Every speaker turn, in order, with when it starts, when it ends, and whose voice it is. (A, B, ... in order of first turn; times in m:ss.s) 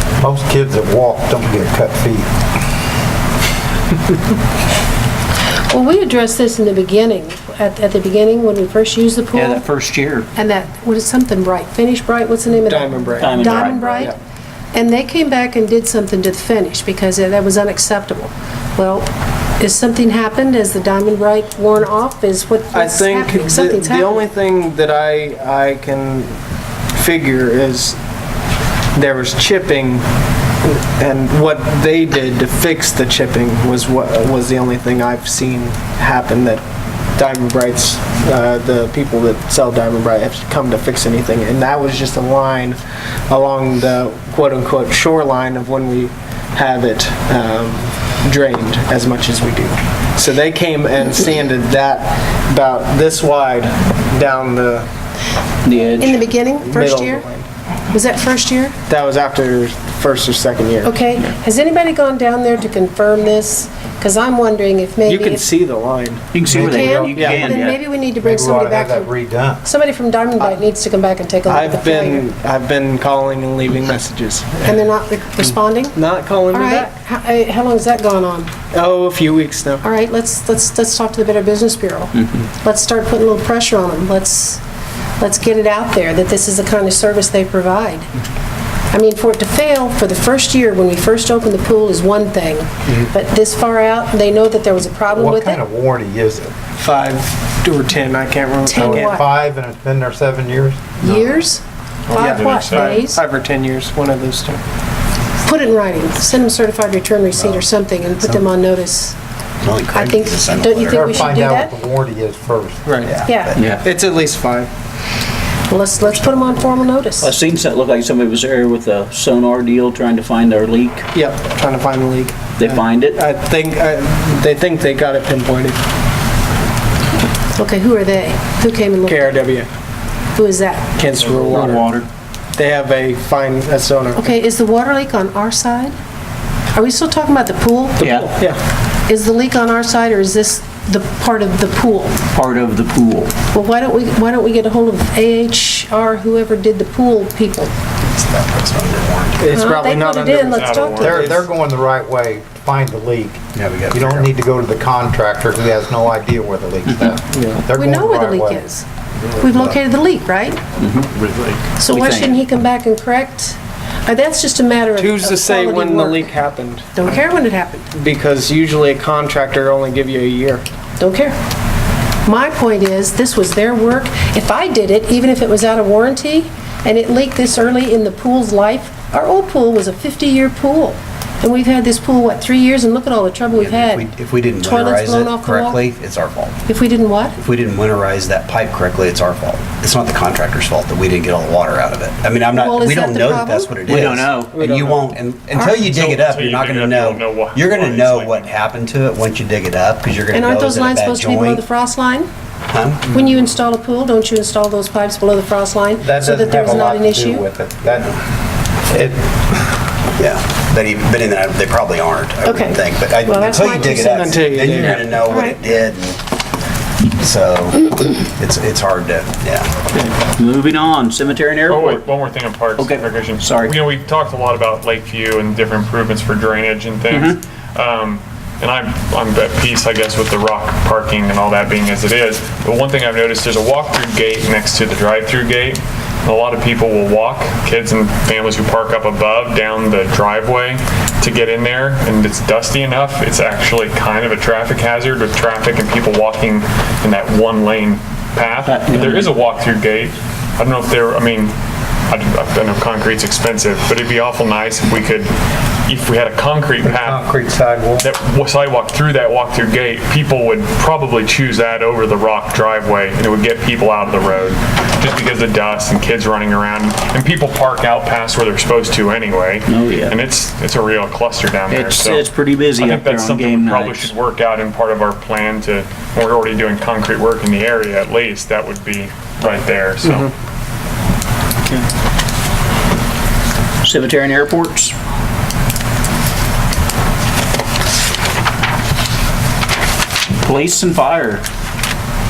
0:00.2-0:02.3 A
0:05.7-0:09.6 B
0:09.3-0:10.3 C
0:10.3-0:14.1 B
0:12.5-0:14.2 D
0:13.2-0:14.1 C
0:14.7-0:19.1 B
0:19.6-0:24.2 B
0:22.7-0:26.4 D
0:26.9-0:28.0 D
0:28.9-0:30.0 D
0:30.6-0:36.6 D
0:37.2-0:54.9 D
0:55.6-0:56.2 C
0:56.0-0:57.2 B
0:56.1-0:57.5 D
0:57.9-0:58.8 B
0:58.9-1:01.0 D
1:00.8-1:05.4 B
1:05.0-1:07.6 D
1:06.3-1:07.8 C
1:06.5-1:09.1 B
1:08.2-1:09.7 A
1:09.6-1:12.2 B
1:10.4-1:10.6 D
1:11.4-1:14.9 D
1:14.6-1:15.9 B
1:15.4-1:17.0 D
1:16.5-1:18.5 B
1:18.7-1:19.8 D
1:19.8-1:24.6 B
1:25.2-1:28.1 B
1:28.9-1:35.6 B
1:35.1-1:36.5 A
1:36.8-1:39.2 D
1:38.6-1:39.2 B
1:38.8-1:41.0 A
1:41.0-1:43.2 B
1:42.1-1:44.6 D
1:42.1-1:43.0 E
1:45.4-1:49.2 B
1:47.4-1:48.0 F
1:49.6-1:51.1 F
1:49.9-1:51.7 B
1:50.9-1:52.9 A
1:52.8-1:54.7 D
1:53.0-1:53.4 F
1:53.2-1:53.6 B
1:53.6-1:53.8 C
1:55.7-1:57.3 B
1:57.2-2:01.0 C
2:01.1-2:05.8 D
2:02.6-2:03.2 C
2:07.5-2:09.4 B
2:09.0-2:09.7 D
2:10.4-2:10.9 B
2:11.0-2:12.0 D
2:11.5-2:12.0 C
2:12.5-2:14.4 D
2:14.2-2:15.9 B
2:16.7-2:18.0 B
2:18.0-2:18.3 C
2:18.0-2:18.6 D
2:19.1-2:22.2 B
2:22.3-2:23.3 C
2:23.5-2:27.7 B
2:28.0-2:29.5 F
2:29.4-2:31.5 D
2:29.5-2:31.2 B
2:30.5-2:31.3 E
2:31.0-2:38.7 A
2:33.5-2:34.3 F
2:37.0-2:37.7 D
2:37.7-2:38.8 B
2:39.4-2:40.6 B
2:39.4-2:39.8 A
2:40.8-2:41.1 C
2:41.8-2:46.3 B
2:41.9-2:42.4 C
2:45.0-2:47.2 D
2:46.9-2:47.9 B
2:47.9-2:50.6 D
2:51.0-2:51.4 B
2:52.2-3:04.0 B
3:03.5-3:06.7 F
3:04.6-3:05.8 B
3:06.7-3:07.4 B
3:07.4-3:21.7 F
3:12.6-3:13.8 B
3:13.8-3:14.6 C
3:14.5-3:15.0 D
3:15.6-3:18.5 E
3:20.3-3:22.3 B
3:22.7-3:23.1 F
3:23.1-3:27.4 B
3:26.0-3:28.2 A
3:28.8-3:29.2 A
3:30.2-3:36.2 F
3:32.4-3:34.2 B
3:33.8-3:35.1 D
3:35.2-3:35.6 B
3:37.2-3:39.7 F
3:39.9-3:42.0 C
3:41.7-4:11.5 E
3:42.8-3:43.8 C
3:47.1-3:47.4 C
4:08.6-4:09.3 C
4:12.1-4:15.3 E
4:15.8-4:17.2 E
4:16.8-4:18.1 A
4:18.0-4:40.3 E
4:29.7-4:30.1 C
4:31.7-4:34.1 C
4:43.8-4:44.9 C
4:50.4-4:51.4 C